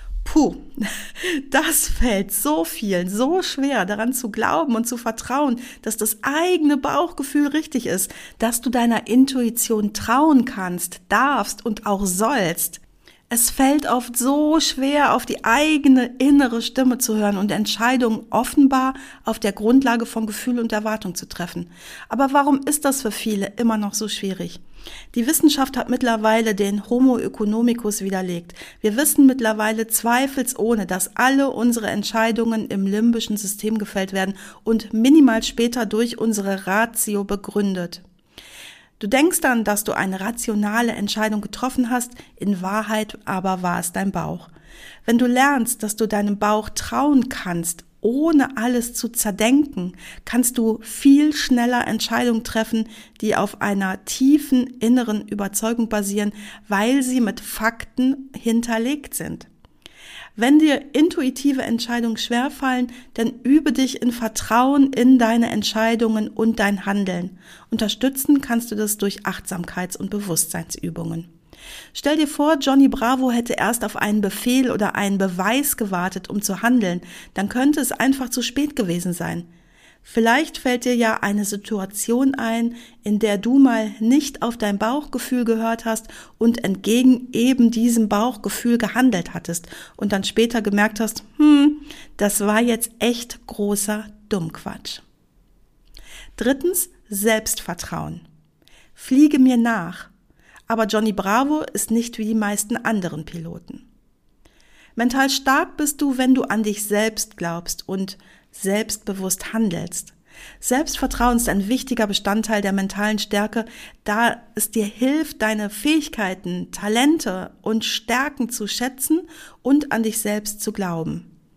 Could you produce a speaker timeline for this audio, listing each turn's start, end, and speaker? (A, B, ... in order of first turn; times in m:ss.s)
0:00.2-0:24.6 A
0:25.1-0:38.0 A
0:39.0-0:44.5 A
0:45.0-0:59.5 A
1:00.4-1:11.3 A
1:11.9-1:19.5 A
1:20.0-1:35.0 A
1:36.4-1:38.2 A
1:38.9-1:40.1 A
1:40.7-1:43.8 A
1:45.0-2:01.3 A